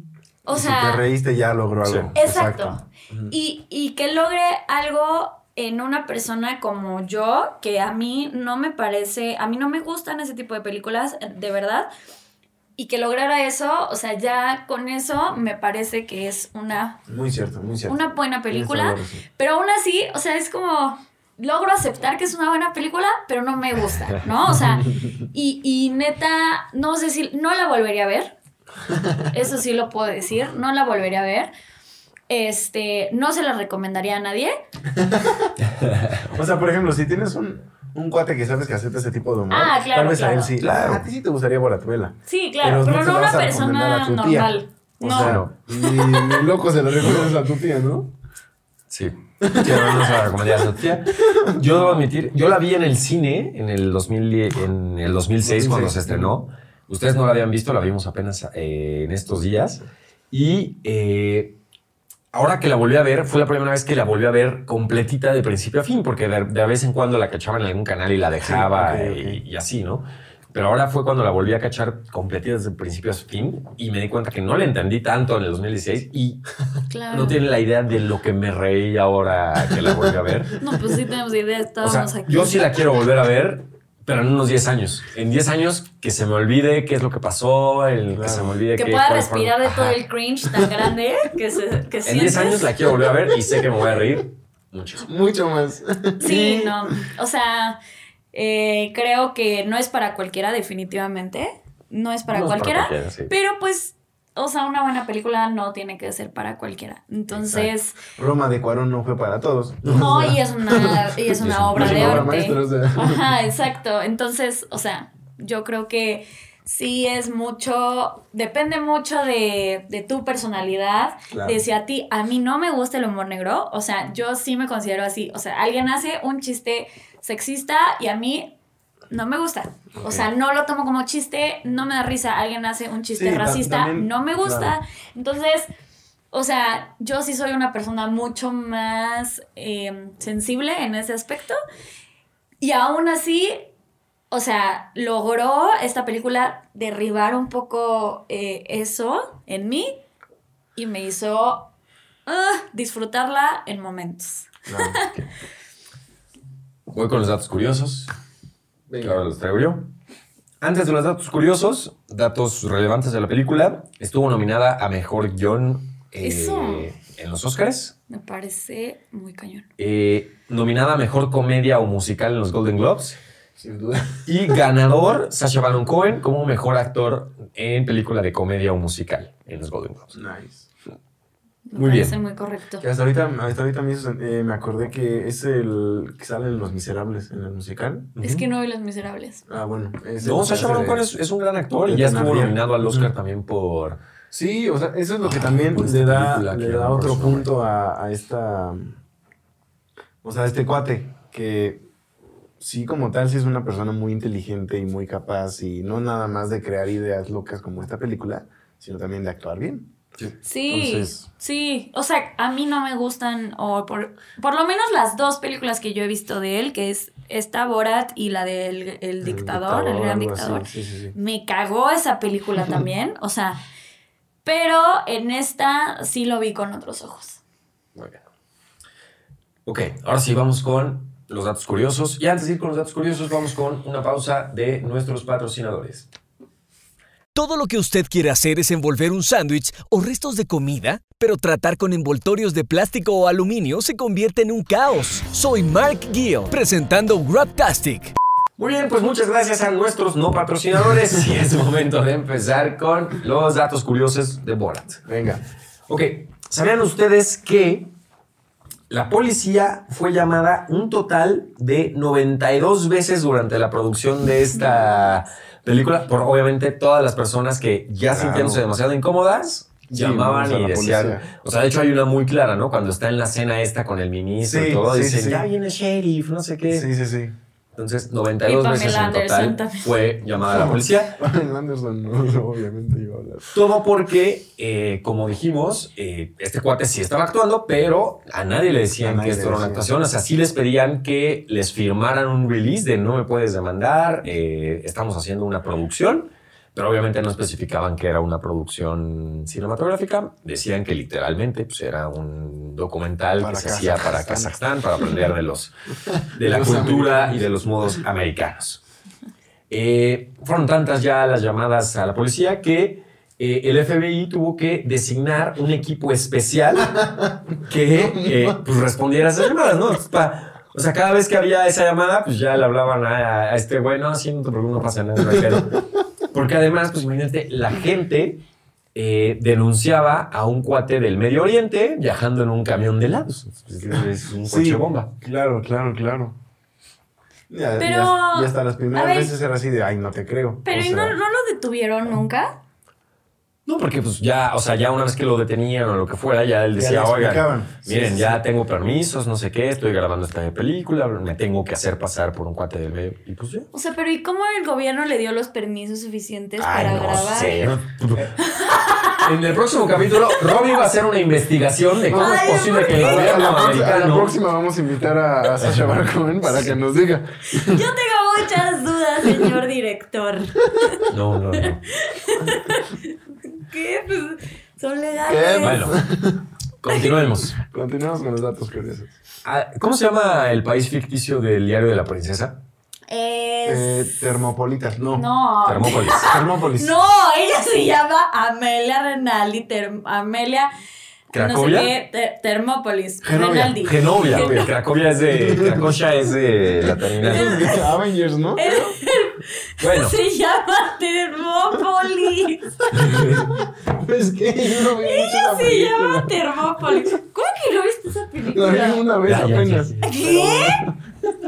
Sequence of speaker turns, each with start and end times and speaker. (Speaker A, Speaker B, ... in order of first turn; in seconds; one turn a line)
Speaker A: 0.5-1.0
Speaker B: 0.5-3.3
Speaker C: 1.8-2.1
Speaker A: 2.2-11.9
Speaker A: 12.8-17.0
Speaker B: 17.1-19.2
Speaker A: 17.9-28.4
Speaker B: 24.7-25.1
Speaker A: 29.3-31.5
Speaker A: 32.3-34.5
Speaker B: 35.0-35.5
Speaker C: 35.8-36.3
Speaker B: 36.3-48.1
Speaker A: 39.5-40.5
Speaker C: 40.6-41.0
Speaker A: 42.3-46.3
Speaker C: 45.2-45.5
Speaker C: 47.0-47.3
Speaker C: 48.9-61.6
Speaker B: 49.4-50.2
Speaker A: 51.7-52.1
Speaker B: 55.4-56.4
Speaker C: 62.3-76.4
Speaker B: 68.4-69.4
Speaker A: 76.9-77.4
Speaker C: 77.1-80.5
Speaker A: 80.6-82.7
Speaker C: 81.8-90.0
Speaker B: 88.1-88.5
Speaker A: 88.8-92.7
Speaker C: 92.0-95.1
Speaker B: 95.0-96.7
Speaker A: 96.2-97.8
Speaker C: 96.2-96.7
Speaker A: 98.3-108.0
Speaker C: 102.3-103.3
Speaker B: 108.2-111.1
Speaker C: 109.8-110.2
Speaker A: 109.9-128.6
Speaker C: 111.4-112.3
Speaker B: 111.7-113.3
Speaker B: 121.3-121.6
Speaker A: 129.1-135.7
Speaker B: 130.0-130.2
Speaker B: 133.2-134.8
Speaker A: 136.3-141.6
Speaker A: 142.6-143.7
Speaker A: 144.3-150.0
Speaker A: 150.8-151.7
Speaker A: 152.3-155.1
Speaker B: 154.7-155.0
Speaker C: 156.9-158.1
Speaker B: 158.9-159.2
Speaker C: 159.0-159.9
Speaker C: 160.6-167.9
Speaker A: 166.2-166.9
Speaker A: 168.1-169.7
Speaker C: 169.8-173.2
Speaker B: 173.6-174.5
Speaker C: 174.2-180.2
Speaker B: 180.1-180.7
Speaker A: 181.7-182.8
Speaker C: 181.8-182.2
Speaker B: 182.8-188.2
Speaker C: 188.2-188.4
Speaker A: 188.2-189.4
Speaker B: 189.5-191.1
Speaker C: 190.2-194.0
Speaker B: 191.9-193.1
Speaker B: 194.3-199.0
Speaker C: 195.2-197.5
Speaker B: 200.2-201.8
Speaker B: 202.6-209.9
Speaker C: 210.2-211.2
Speaker A: 210.4-223.6
Speaker B: 219.2-221.2
Speaker A: 224.4-227.4
Speaker C: 227.9-228.2
Speaker C: 229.7-236.1
Speaker D: 237.3-248.1
Speaker C: 248.6-255.0
Speaker B: 255.1-255.4
Speaker C: 255.9-257.9
Speaker C: 258.9-276.9
Speaker A: 264.6-265.2
Speaker B: 268.1-268.6
Speaker B: 269.9-271.2
Speaker B: 274.4-275.5
Speaker B: 276.7-277.4
Speaker C: 277.8-281.1
Speaker A: 278.4-279.9
Speaker B: 280.4-283.5
Speaker C: 283.5-305.7
Speaker B: 289.0-289.9
Speaker B: 303.4-304.5
Speaker B: 306.1-307.5
Speaker C: 306.3-308.8
Speaker C: 309.7-317.0
Speaker B: 317.0-317.3
Speaker C: 317.6-325.8
Speaker B: 317.9-318.6
Speaker B: 325.4-325.6
Speaker C: 326.3-328.4
Speaker C: 328.9-335.1
Speaker B: 334.4-336.4
Speaker B: 337.5-341.2
Speaker A: 337.8-339.4
Speaker A: 340.6-342.6
Speaker C: 343.7-353.7
Speaker B: 346.8-348.4
Speaker A: 353.7-357.7
Speaker C: 356.6-358.4
Speaker A: 358.4-359.3
Speaker C: 359.1-364.4
Speaker A: 362.1-363.7
Speaker B: 362.1-367.8
Speaker C: 365.6-366.8
Speaker A: 367.5-371.0
Speaker C: 371.1-371.8
Speaker A: 371.6-375.8
Speaker B: 375.2-376.4
Speaker C: 375.6-376.0
Speaker C: 376.8-377.6
Speaker B: 377.6-379.2
Speaker C: 379.4-382.6
Speaker A: 383.1-384.0
Speaker B: 383.6-385.2
Speaker A: 385.1-390.7
Speaker C: 385.6-386.9
Speaker A: 391.3-394.7
Speaker C: 391.3-391.9
Speaker B: 393.2-394.7
Speaker C: 393.8-397.7
Speaker B: 395.3-395.9
Speaker B: 396.8-399.0
Speaker A: 397.2-397.9
Speaker A: 398.6-402.7
Speaker C: 399.8-400.2
Speaker C: 402.9-403.5
Speaker B: 402.9-406.4
Speaker A: 405.0-409.1
Speaker B: 408.4-411.0
Speaker C: 409.2-410.3
Speaker A: 410.0-410.9